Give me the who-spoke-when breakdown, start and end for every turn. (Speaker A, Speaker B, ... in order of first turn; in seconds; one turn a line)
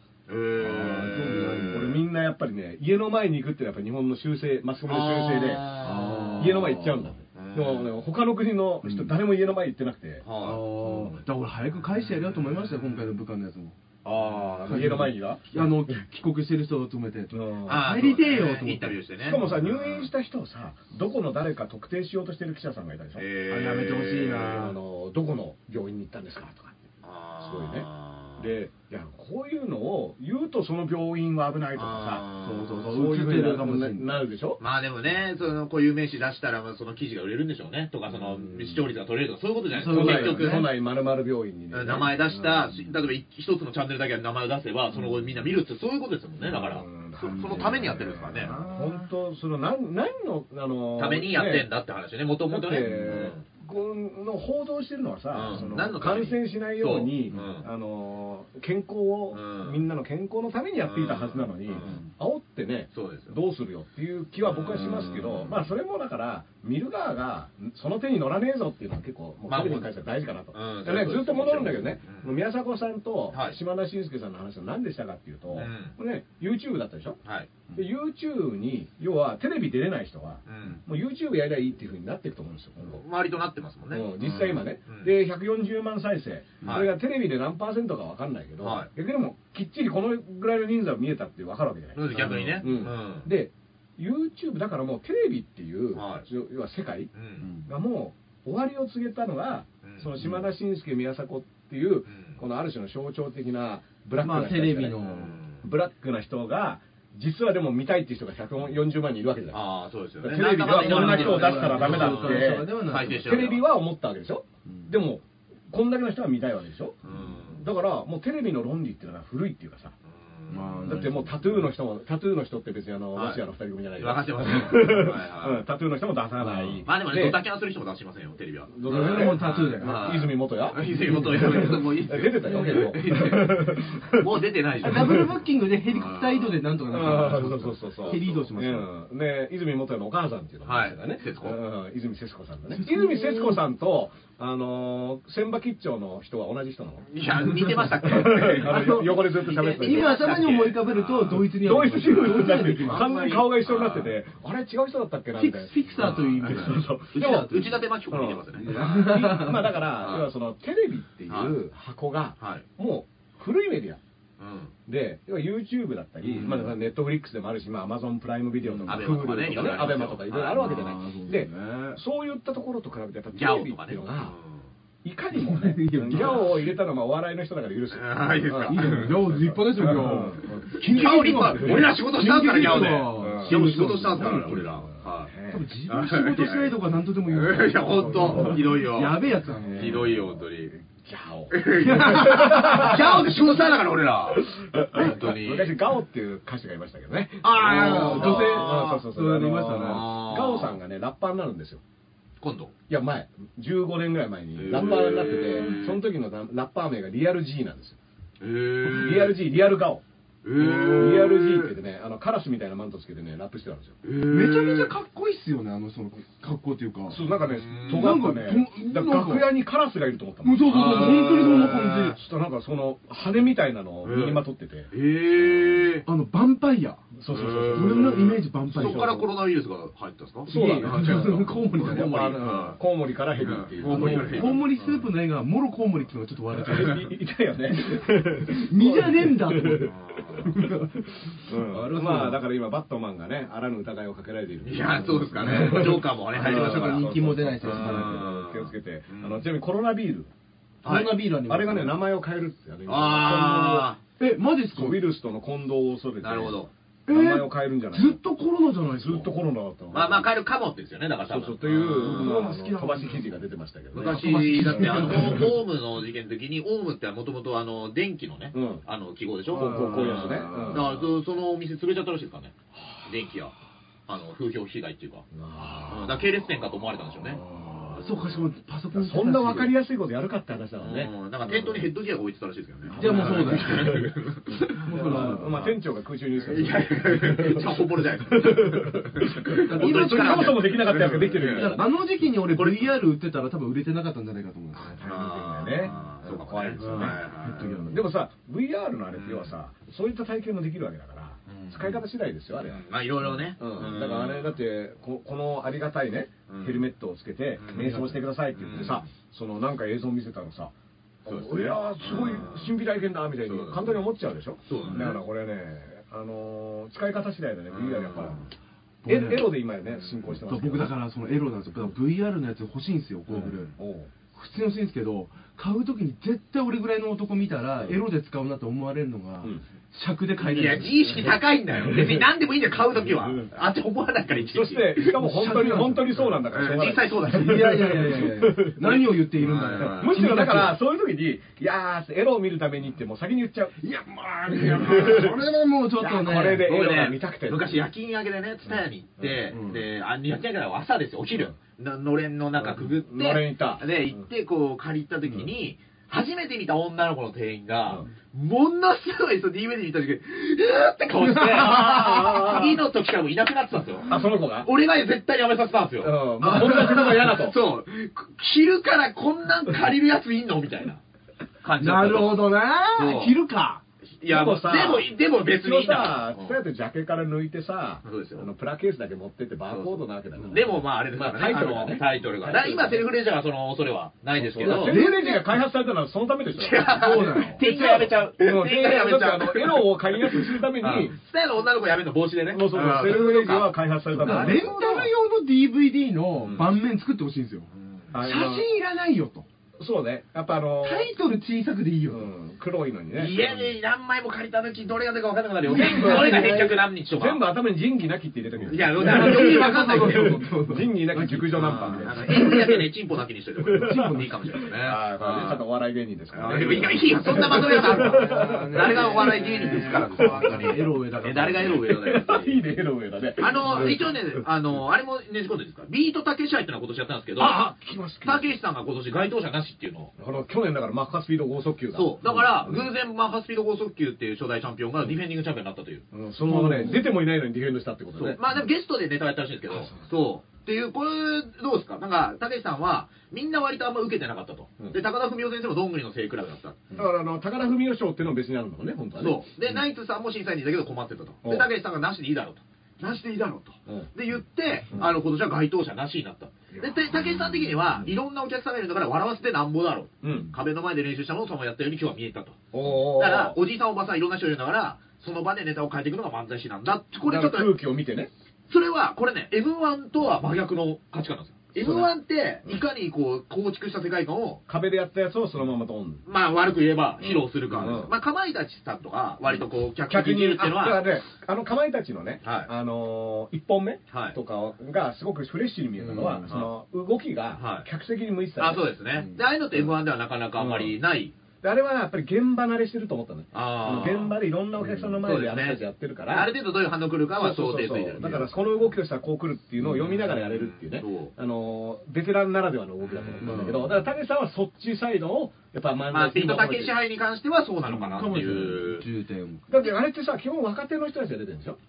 Speaker A: 0.3-2.0
Speaker B: 0.6-2.0
Speaker C: 1.7-5.7
Speaker A: 4.9-6.5
Speaker B: 5.8-7.1
Speaker C: 6.4-10.2
Speaker A: 7.3-7.9
Speaker B: 8.8-9.2
Speaker A: 10.2-10.6
Speaker B: 10.4-13.8
Speaker C: 10.8-11.2
Speaker A: 12.0-13.1
Speaker A: 14.1-14.8
Speaker C: 14.2-16.0
Speaker B: 14.6-19.0
Speaker C: 17.3-17.9
Speaker A: 17.7-20.1
Speaker C: 19.2-23.3
Speaker A: 23.2-24.7
Speaker B: 23.5-24.7
Speaker C: 24.4-26.9
Speaker A: 27.0-28.5
Speaker C: 27.4-32.3
Speaker A: 31.8-32.9
Speaker B: 32.4-34.2
Speaker C: 32.9-34.6
Speaker A: 34.6-40.7
Speaker C: 38.2-38.8
Speaker B: 39.7-40.7
Speaker C: 39.9-42.9
Speaker A: 41.7-48.6
Speaker C: 44.9-45.3
Speaker C: 46.4-51.7
Speaker B: 47.2-49.1
Speaker A: 51.0-53.4
Speaker C: 52.5-77.2
Speaker B: 52.9-53.3
Speaker A: 55.3-57.7
Speaker A: 59.3-59.8
Speaker A: 60.8-62.0
Speaker B: 61.8-62.1
Speaker A: 62.9-63.4
Speaker A: 64.4-65.7
Speaker A: 69.5-69.9
Speaker A: 70.5-72.3
Speaker A: 73.3-73.6
Speaker A: 75.5-76.0
Speaker A: 77.2-77.5
Speaker C: 77.7-83.0
Speaker A: 80.5-80.8
Speaker A: 82.9-85.1
Speaker C: 83.9-97.1
Speaker A: 86.6-86.9
Speaker A: 88.6-88.9
Speaker A: 92.0-93.3
Speaker B: 92.1-92.8
Speaker A: 96.0-96.3
Speaker A: 97.1-97.5
Speaker B: 97.4-97.7
Speaker C: 97.7-105.0
Speaker A: 99.8-100.4
Speaker A: 102.1-102.4
Speaker B: 104.2-105.4
Speaker A: 105.0-105.6
Speaker C: 105.6-109.6
Speaker A: 109.5-113.7
Speaker C: 110.2-112.7
Speaker B: 110.7-113.5
Speaker C: 113.2-120.0
Speaker A: 117.0-117.6
Speaker A: 120.0-121.1
Speaker B: 120.5-121.7
Speaker C: 120.8-127.4
Speaker A: 123.2-123.4
Speaker A: 124.0-125.6
Speaker A: 126.4-137.4
Speaker C: 128.7-135.3
Speaker B: 128.8-130.3
Speaker B: 130.8-133.2
Speaker B: 134.8-138.9
Speaker C: 136.9-150.4
Speaker A: 138.1-138.5
Speaker A: 140.6-141.6
Speaker B: 142.7-143.6
Speaker A: 147.1-151.5
Speaker B: 147.6-153.4
Speaker C: 151.6-164.0
Speaker A: 152.8-154.2
Speaker B: 155.3-157.9
Speaker A: 155.9-160.3
Speaker B: 158.5-159.8
Speaker A: 161.3-161.6
Speaker A: 162.4-162.7
Speaker A: 164.4-164.7
Speaker C: 164.9-174.3
Speaker A: 166.2-166.8
Speaker A: 168.8-170.8
Speaker B: 170.5-172.0
Speaker A: 173.3-174.7
Speaker C: 175.0-180.8
Speaker B: 175.3-176.7
Speaker A: 176.1-176.6
Speaker A: 177.9-179.2
Speaker B: 178.7-184.8
Speaker A: 180.8-185.3
Speaker C: 183.2-185.7
Speaker B: 185.5-190.1
Speaker A: 185.9-186.8
Speaker A: 187.3-190.7
Speaker C: 188.0-188.6
Speaker C: 189.6-193.7
Speaker A: 191.5-195.8
Speaker B: 191.8-193.3
Speaker C: 194.3-201.8
Speaker B: 197.4-200.2
Speaker A: 197.5-199.0
Speaker A: 199.8-200.8
Speaker A: 202.4-202.7
Speaker C: 202.9-208.0
Speaker A: 204.6-206.0
Speaker B: 204.7-205.9
Speaker A: 208.4-209.4
Speaker C: 208.9-210.0
Speaker A: 210.4-211.8
Speaker B: 210.6-211.3
Speaker C: 210.6-214.0
Speaker A: 214.0-214.9
Speaker B: 214.3-217.3
Speaker C: 217.1-224.9
Speaker A: 217.3-218.2
Speaker B: 217.9-219.5
Speaker B: 220.4-222.2
Speaker A: 220.7-222.2
Speaker A: 224.0-226.1
Speaker C: 225.5-225.9
Speaker B: 226.1-227.1
Speaker C: 227.1-229.2
Speaker A: 227.3-232.8
Speaker B: 227.7-229.3
Speaker B: 230.5-232.3
Speaker C: 230.5-234.9
Speaker A: 233.4-234.7
Speaker B: 233.8-237.1
Speaker C: 236.6-250.3
Speaker B: 237.8-239.9
Speaker A: 239.8-240.5
Speaker B: 240.4-242.4
Speaker A: 244.6-249.5
Speaker B: 245.0-248.3
Speaker A: 250.8-251.2
Speaker B: 250.8-252.0
Speaker C: 251.4-253.9
Speaker A: 252.9-254.0
Speaker B: 254.2-255.1
Speaker C: 254.7-258.2
Speaker A: 256.2-256.7
Speaker B: 257.1-259.3
Speaker C: 259.0-260.3
Speaker A: 259.9-262.4
Speaker C: 261.3-265.2
Speaker B: 261.7-263.3
Speaker B: 263.9-265.6
Speaker A: 263.9-273.5
Speaker C: 268.5-268.8
Speaker B: 269.5-271.0
Speaker C: 269.5-270.9
Speaker A: 274.1-275.3
Speaker C: 275.3-276.2
Speaker A: 275.8-277.4
Speaker C: 277.3-278.1
Speaker B: 277.4-279.8
Speaker C: 278.9-281.9
Speaker A: 280.8-285.7
Speaker C: 282.9-284.1
Speaker B: 282.9-284.1
Speaker B: 284.7-285.7
Speaker C: 284.9-291.9
Speaker A: 286.4-291.9
Speaker B: 289.6-294.9
Speaker A: 292.4-292.9
Speaker A: 294.8-297.7
Speaker C: 294.8-310.7
Speaker B: 296.8-298.0
Speaker A: 299.1-299.6
Speaker A: 301.5-302.0
Speaker A: 302.6-304.6
Speaker A: 306.5-306.8
Speaker A: 307.6-309.1
Speaker B: 307.8-308.1
Speaker C: 311.2-318.5
Speaker A: 311.3-312.7
Speaker A: 313.4-314.0
Speaker A: 314.7-315.2
Speaker A: 317.7-318.5
Speaker B: 319.1-319.5
Speaker C: 319.1-320.9
Speaker B: 320.3-323.7
Speaker A: 323.3-323.7
Speaker C: 323.3-324.1
Speaker B: 324.3-331.3
Speaker A: 330.4-335.1
Speaker C: 331.9-332.2
Speaker C: 334.4-339.2
Speaker B: 335.0-336.4
Speaker A: 336.5-338.0
Speaker B: 337.2-340.8
Speaker A: 339.4-340.2
Speaker C: 339.7-343.9
Speaker B: 343.8-346.7
Speaker C: 344.5-345.4
Speaker C: 346.0-347.9
Speaker A: 346.6-371.0
Speaker C: 349.2-349.5
Speaker B: 349.5-349.9
Speaker C: 352.6-353.9
Speaker B: 361.4-362.4
Speaker C: 361.6-362.8
Speaker C: 364.1-364.7
Speaker C: 366.0-367.6
Speaker B: 366.5-367.0
Speaker A: 371.6-373.4
Speaker B: 371.8-373.8
Speaker A: 374.2-376.6
Speaker C: 374.3-383.1
Speaker A: 378.0-378.5
Speaker A: 379.7-385.0
Speaker C: 384.4-387.7
Speaker B: 384.6-385.6
Speaker A: 386.5-395.1
Speaker B: 386.9-388.2
Speaker C: 388.4-391.2
Speaker C: 392.5-395.1
Speaker B: 394.1-399.5
Speaker C: 396.4-396.7
Speaker A: 397.7-398.1
Speaker C: 398.1-398.7
Speaker C: 399.8-401.1
Speaker B: 400.8-402.3
Speaker C: 402.1-403.7
Speaker A: 403.2-407.4
Speaker B: 405.7-406.8
Speaker C: 405.7-412.9
Speaker B: 408.7-412.6
Speaker A: 408.7-410.4
Speaker A: 411.5-415.6
Speaker C: 413.6-420.9
Speaker B: 413.8-414.5
Speaker A: 416.3-422.6
Speaker B: 417.3-421.9
Speaker C: 421.6-424.4
Speaker A: 423.4-427.6
Speaker C: 427.4-428.6
Speaker A: 428.2-430.1
Speaker C: 430.2-432.9
Speaker A: 431.9-436.1
Speaker C: 436.1-438.4
Speaker B: 436.4-437.0
Speaker A: 438.2-446.9
Speaker C: 439.7-440.1
Speaker C: 446.9-449.7
Speaker A: 449.2-467.7
Speaker C: 451.4-451.7
Speaker C: 453.9-454.1
Speaker C: 456.7-458.1
Speaker C: 460.2-460.5
Speaker C: 462.7-463.6
Speaker C: 467.2-468.3
Speaker A: 468.7-474.6
Speaker C: 471.8-472.1
Speaker C: 474.7-476.2
Speaker A: 476.3-481.1
Speaker C: 477.2-478.1
Speaker C: 480.1-488.9
Speaker A: 482.4-482.7
Speaker A: 484.1-484.4
Speaker B: 486.0-486.5
Speaker A: 486.2-486.7
Speaker A: 487.6-487.9
Speaker A: 488.6-491.4
Speaker C: 490.6-490.9
Speaker C: 491.6-496.5
Speaker A: 493.5-494.4
Speaker B: 494.8-495.1
Speaker A: 495.2-498.8
Speaker C: 497.3-507.0
Speaker A: 500.0-501.3
Speaker A: 503.0-504.0
Speaker B: 503.4-504.0
Speaker A: 506.1-509.1
Speaker B: 507.9-509.6
Speaker C: 509.7-511.8